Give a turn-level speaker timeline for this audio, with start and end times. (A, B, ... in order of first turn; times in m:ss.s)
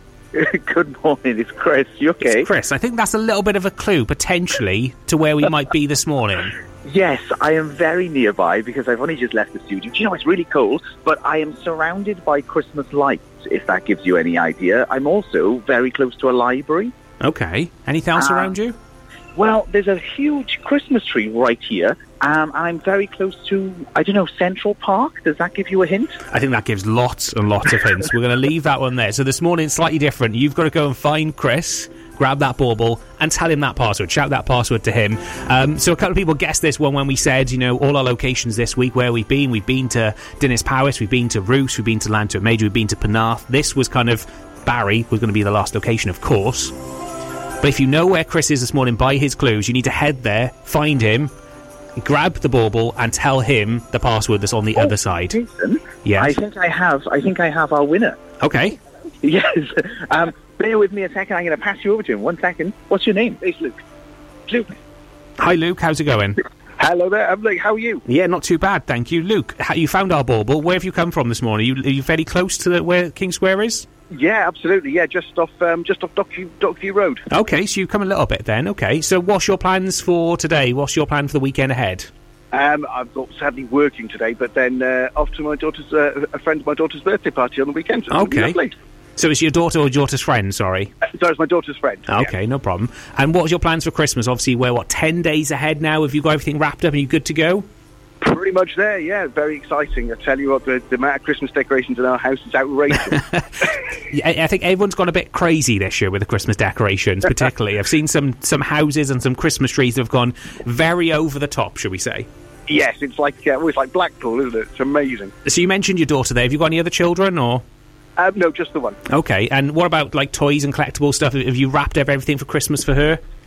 0:00.3-0:02.5 A
0:02.2-0:06.5 B
0:06.8-0:16.9 A
0:17.2-0:18.8 B
0:18.2-0:18.5 A
0:19.4-0:26.2 A
0:26.3-0:46.7 B
0:47.6-0:51.3 B
0:52.0-0:55.4 B
0:54.8-0:58.2 A
0:56.0-0:56.4 B
0:58.4-0:58.8 B
0:59.2-1:03.4 A
1:03.4-1:03.8 C
1:04.5-1:04.7 C
1:05.4-1:06.4 B
1:06.8-1:08.0 C
1:08.1-1:13.9 B
1:14.1-1:17.2 C
1:17.3-1:22.1 B
1:22.5-1:28.7 C
1:28.1-1:28.6 B
1:29.2-1:30.9 B
1:31.1-1:32.3 C
1:32.1-1:37.7 B
1:38.2-1:43.2 C
1:43.1-1:52.3 B
1:52.7-1:55.3 C
1:55.4-1:57.6 B
1:58.2-1:59.0 C
1:59.1-2:03.2 B